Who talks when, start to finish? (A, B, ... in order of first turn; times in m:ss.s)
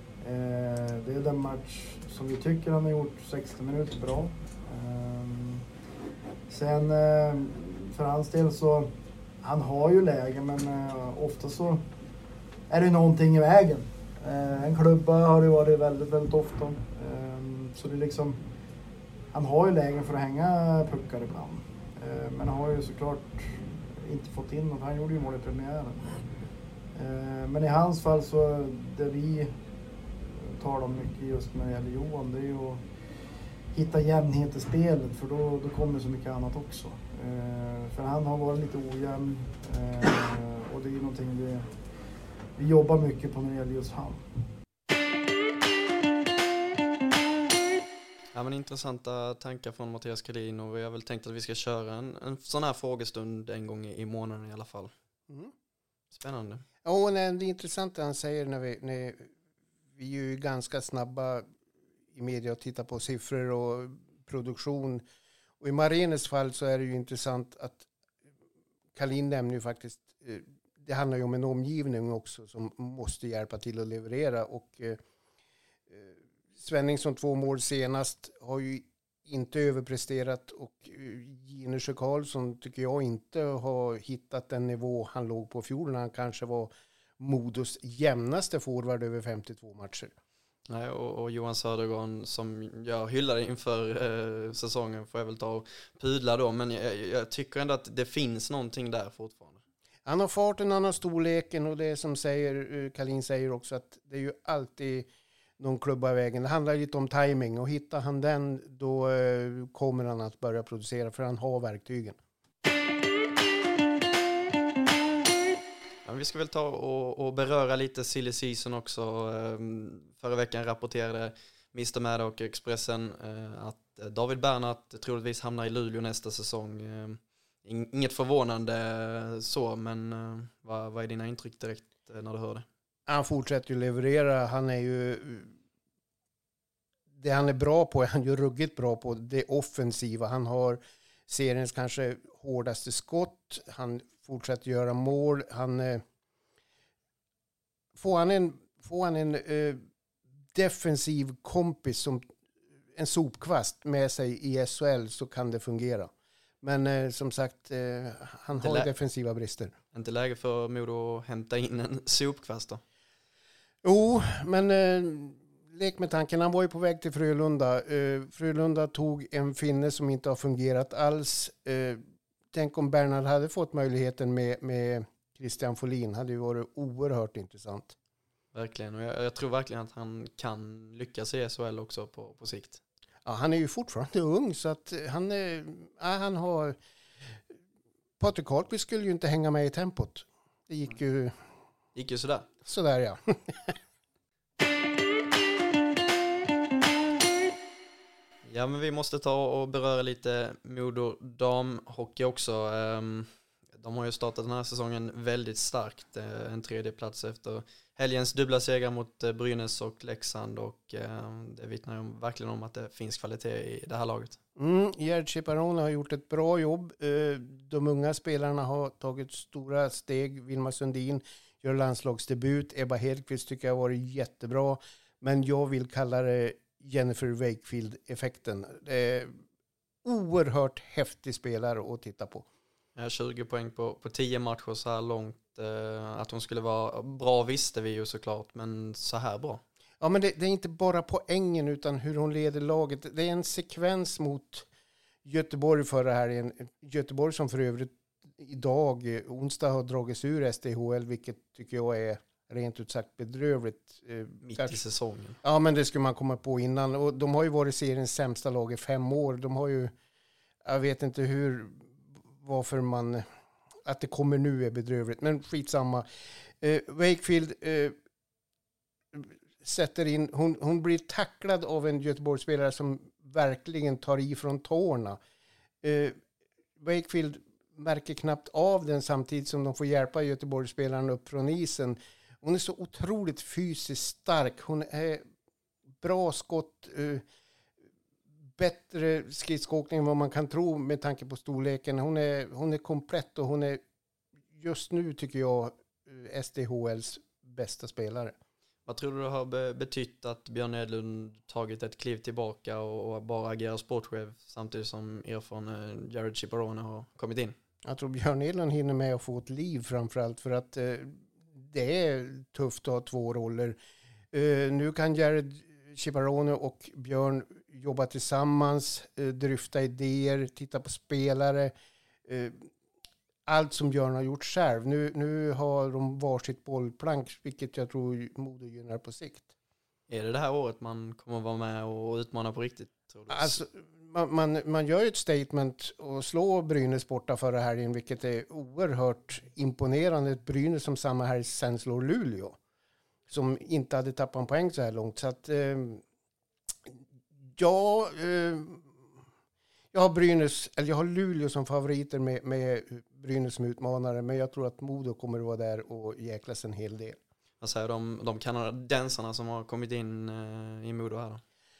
0:00.2-0:05.6 A
0:06.5-0:08.9 A
0:09.4-0:11.8 A
0:12.7-0:18.4 A
0:19.3-0:26.2 A
0:26.9-0:29.5 A
0:30.3-0:32.8 A
0:33.7-0:41.7 A
0:42.6-0:44.2 A
0:48.3-0:54.9 B
0:56.1-0:56.6 B
0:56.8-0:59.3 C
1:00.0-1:01.4 C
1:02.1-1:05.0 C
1:05.6-1:07.8 C
1:08.9-1:15.0 C
1:15.9-1:30.1 C
1:30.7-1:39.6 B
1:40.0-1:45.1 C
1:45.6-1:52.2 C
1:56.0-2:12.6 B
2:13.1-2:15.5 C
2:17.2-2:26.0 C
2:27.9-2:29.8 C
2:30.5-2:32.2 C
2:32.9-2:36.1 C
2:36.6-2:39.7 C
2:38.6-2:38.9 B
2:39.9-2:42.8 B
2:43.8-2:52.0 C
2:52.5-2:58.0 C
2:58.5-3:02.8 B
3:03.2-3:06.8 C
3:08.2-3:11.4 C
3:11.9-3:12.5 B
3:12.6-3:13.7 C
3:18.4-3:34.4 B
3:34.6-3:49.4 C
3:50.0-3:52.4 C
3:53.0-3:59.6 B
4:00.0-4:04.7 C
4:05.2-4:14.8 C
4:14.4-4:15.4 B
4:15.4-4:19.9 C
4:20.6-4:23.2 C
4:23.8-4:26.0 C
4:26.6-4:28.0 C
4:29.1-4:35.2 C
4:35.8-4:36.2 C
4:36.8-4:45.2 C
4:46.0-4:47.2 C
4:48.6-4:53.8 C
4:54.5-4:58.3 C
4:58.8-5:07.6 B
5:07.8-5:13.8 C
5:14.3-5:21.7 C
5:22.2-5:22.7 C
5:23.4-5:29.5 C
5:30.1-5:33.6 B
5:33.3-5:42.6 C
5:43.3-5:46.0 C
5:47.6-5:48.9 C
5:49.9-5:57.2 C
5:57.6-6:01.4 B